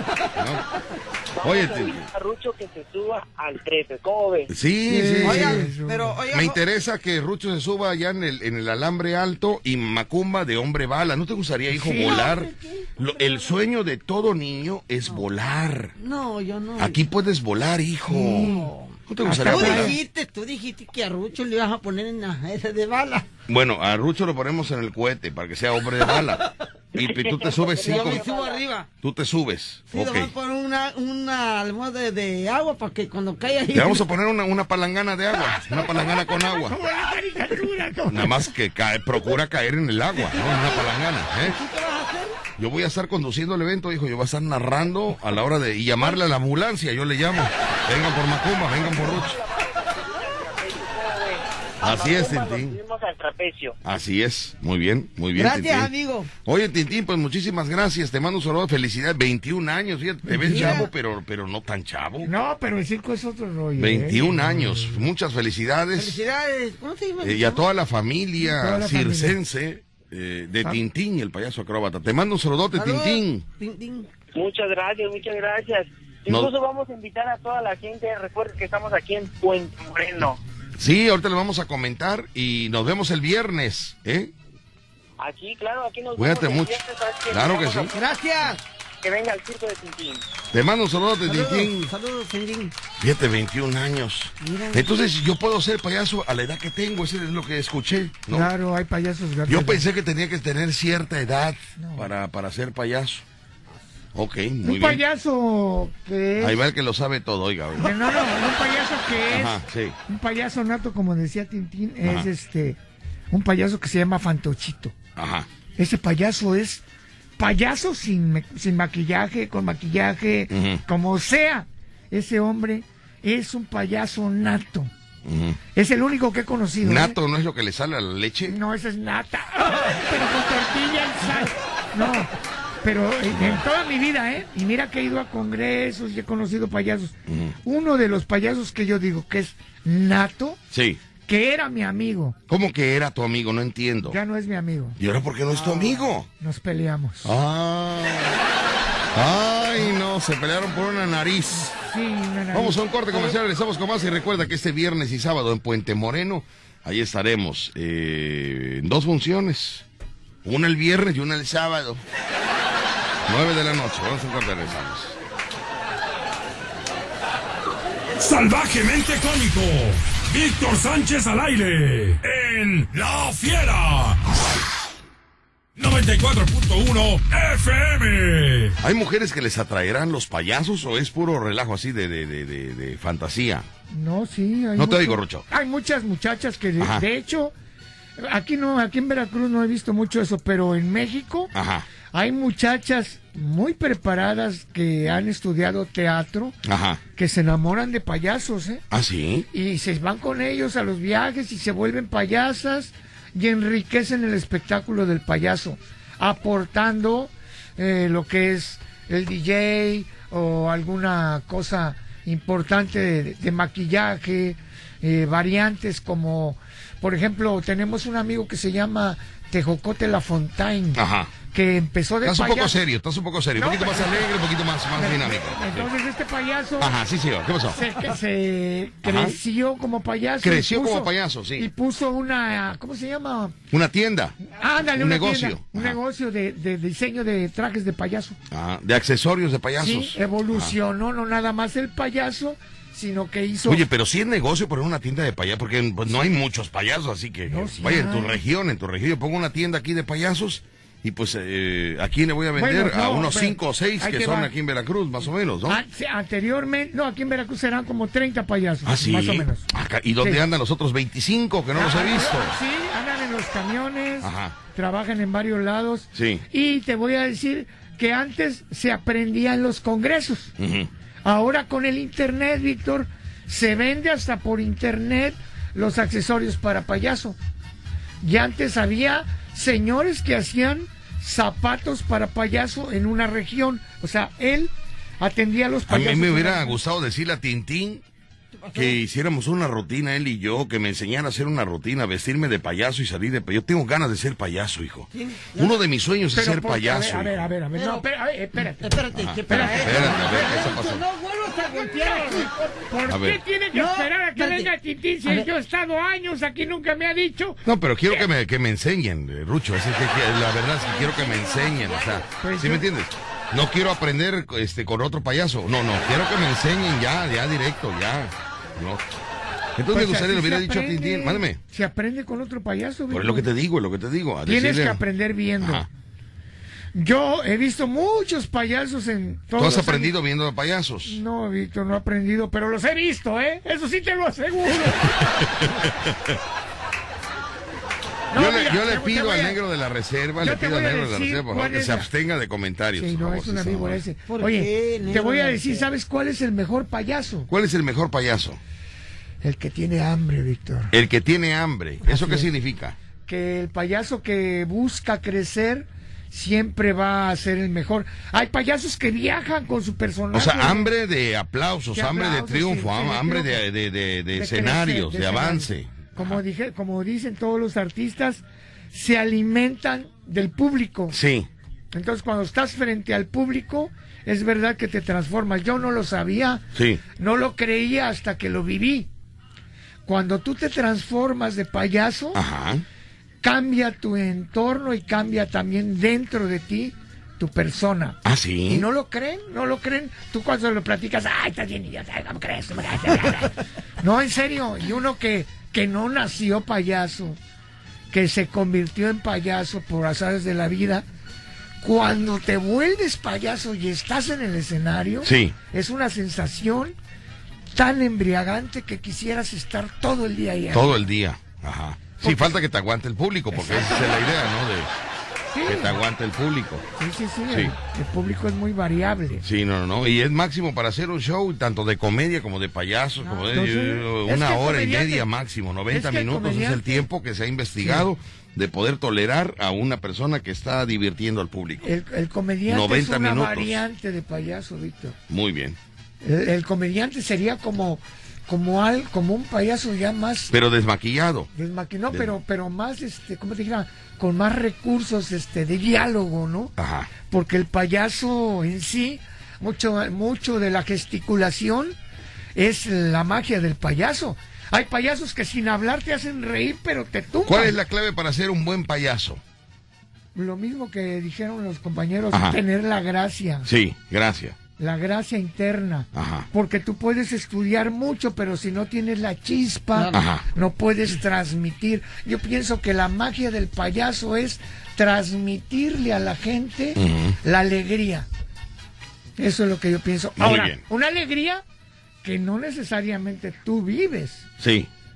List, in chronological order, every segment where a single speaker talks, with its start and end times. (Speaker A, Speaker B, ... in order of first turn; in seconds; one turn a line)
Speaker A: 0.4-0.7
Speaker B: 1.4-4.5
Speaker A: 1.4-2.0
Speaker A: 4.5-5.7
Speaker C: 4.9-6.2
Speaker D: 5.2-6.6
Speaker A: 6.3-15.9
Speaker C: 11.7-12.3
Speaker D: 11.9-13.6
Speaker D: 16.0-17.0
Speaker A: 16.8-18.6
Speaker C: 18.1-20.0
Speaker D: 18.3-18.8
Speaker A: 19.1-20.0
Speaker D: 19.4-23.3
Speaker A: 23.5-28.3
Speaker D: 26.0-26.5
Speaker B: 27.0-28.6
Speaker D: 27.8-28.9
Speaker A: 29.0-30.3
Speaker D: 29.9-34.1
Speaker A: 33.7-36.8
Speaker C: 36.5-38.5
Speaker A: 38.1-41.6
Speaker D: 40.2-40.9
Speaker D: 41.4-42.4
Speaker A: 42.6-49.4
Speaker B: 49.0-53.8
Speaker A: 51.8-52.8
Speaker A: 53.8-55.9
Speaker D: 55.4-56.3
Speaker A: 56.5-62.3
Speaker C: 60.3-60.9
Speaker D: 60.4-60.9
Speaker C: 62.2-65.1
Speaker A: 63.8-66.2
Speaker D: 66.0-67.6
Speaker A: 67.2-73.4
Speaker C: 68.4-69.4
Speaker D: 72.8-74.1
Speaker B: 74.3-80.4
Speaker A: 80.8-84.3
Speaker B: 85.2-88.1
Speaker A: 86.2-86.8
Speaker A: 87.3-87.9
Speaker D: 87.9-88.6
Speaker B: 89.0-90.2
Speaker A: 90.5-91.9
Speaker D: 91.2-92.7
Speaker A: 93.0-98.5
Speaker D: 94.4-94.9
Speaker C: 98.3-99.8
Speaker A: 99.5-103.2
Speaker C: 101.8-102.1
Speaker A: 104.2-105.0
Speaker C: 104.6-106.6
Speaker A: 106.4-108.0
Speaker C: 107.8-112.8
Speaker A: 109.3-110.0
Speaker A: 112.0-112.3
Speaker C: 113.3-115.0
Speaker A: 115.2-115.5
Speaker C: 115.8-116.8
Speaker C: 117.4-124.9
Speaker A: 120.5-120.8
Speaker A: 125.2-125.6
Speaker C: 125.8-127.2
Speaker A: 126.8-128.6
Speaker C: 128.5-140.6
Speaker A: 133.3-133.6
Speaker A: 137.3-137.6
Speaker A: 140.7-141.0
Speaker C: 141.3-142.4
Speaker A: 142.5-144.2
Speaker C: 144.1-145.0
Speaker A: 145.0-146.3
Speaker C: 146.4-147.4
Speaker A: 147.2-148.4
Speaker A: 149.1-151.8
Speaker C: 151.5-153.4
Speaker A: 152.5-159.8
Speaker A: 160.4-162.0
Speaker A: 163.3-165.2
Speaker E: 168.2-174.4
Speaker E: 175.8-178.8
Speaker A: 178.8-183.7
Speaker C: 183.9-187.5
Speaker A: 184.8-185.4
Speaker A: 186.8-187.1
Speaker C: 188.2-191.5
Speaker A: 191.5-191.9
Speaker C: 192.1-196.6
Speaker A: 196.7-197.0
Speaker C: 197.2-198.8
Speaker A: 198.9-199.5
Speaker C: 199.5-222.8
Speaker A: 220.9-221.3
Speaker A: 222.2-225.9
Speaker C: 223.6-224.3
Speaker C: 224.9-227.0
Speaker A: 226.8-227.8
Speaker C: 227.7-233.6
Speaker A: 229.0-229.4
Speaker A: 230.4-231.7
Speaker A: 233.7-236.0
Speaker C: 234.4-238.4
Speaker A: 238.5-240.8
Speaker C: 239.8-243.8
Speaker A: 243.7-255.8
Speaker C: 247.5-248.4
Speaker C: 252.6-254.5
Speaker C: 255.7-259.7
Speaker A: 258.9-262.6
Speaker C: 260.2-260.5
Speaker C: 261.7-270.5
Speaker A: 264.2-264.6
Speaker A: 266.1-266.4
Speaker A: 270.6-270.9
Speaker C: 271.2-277.4
Speaker C: 278.2-286.8
Speaker A: 285.9-288.0
Speaker D: 288.6-289.0
Speaker A: 288.7-297.4
Speaker D: 295.1-295.8
Speaker C: 296.3-300.8
Speaker D: 297.8-298.1
Speaker D: 298.6-302.5
Speaker A: 299.1-301.1
Speaker C: 301.7-307.6
Speaker A: 303.1-303.4
Speaker D: 303.7-304.7
Speaker A: 307.6-319.0
Speaker D: 310.8-312.3
Speaker C: 312.4-312.9
Speaker A: 319.8-321.6
Speaker C: 319.9-323.5
Speaker A: 323.1-325.0
Speaker C: 324.5-325.9
Speaker A: 325.6-325.9
Speaker C: 326.9-330.1
Speaker A: 329.6-331.2
Speaker C: 331.1-335.4
Speaker A: 335.2-336.4
Speaker C: 338.3-339.6
Speaker A: 338.3-344.0
Speaker C: 340.4-342.1
Speaker C: 342.9-347.5
Speaker D: 344.3-345.9
Speaker A: 347.5-348.6
Speaker C: 349.4-350.9
Speaker A: 350.9-353.0
Speaker C: 352.0-352.5
Speaker C: 353.3-360.9
Speaker A: 360.3-366.4
Speaker C: 361.9-363.6
Speaker C: 364.3-371.2
Speaker A: 371.1-371.5
Speaker C: 371.9-376.6
Speaker A: 376.8-377.0
Speaker C: 377.2-379.1
Speaker C: 380.1-382.4
Speaker A: 382.3-382.8
Speaker C: 383.4-397.4
Speaker A: 388.2-388.9
Speaker C: 398.1-401.1
Speaker C: 401.8-406.9
Speaker A: 405.2-405.6
Speaker C: 407.7-411.0
Speaker A: 410.7-414.9
Speaker C: 412.2-412.6
Speaker C: 413.5-414.3
Speaker C: 415.5-416.0
Speaker A: 415.7-416.9
Speaker C: 417.0-419.4
Speaker A: 417.5-417.8
Speaker A: 419.4-431.9
Speaker C: 423.2-425.3
Speaker C: 425.9-427.1
Speaker C: 427.8-428.1
Speaker C: 431.8-435.2
Speaker A: 432.7-433.8
Speaker A: 435.3-435.8
Speaker C: 436.2-440.6
Speaker A: 440.5-441.5
Speaker C: 441.5-446.7
Speaker A: 446.8-447.1
Speaker C: 447.3-451.9
Speaker C: 452.6-457.8
Speaker A: 457.4-459.4
Speaker C: 460.4-463.7
Speaker A: 462.3-462.6
Speaker A: 463.6-464.6
Speaker C: 464.8-478.3
Speaker A: 466.1-466.5
Speaker D: 469.9-470.2
Speaker A: 470.1-470.4
Speaker A: 477.0-477.4
Speaker C: 479.4-481.6
Speaker A: 480.4-480.8
Speaker C: 482.2-484.5
Speaker A: 484.6-484.9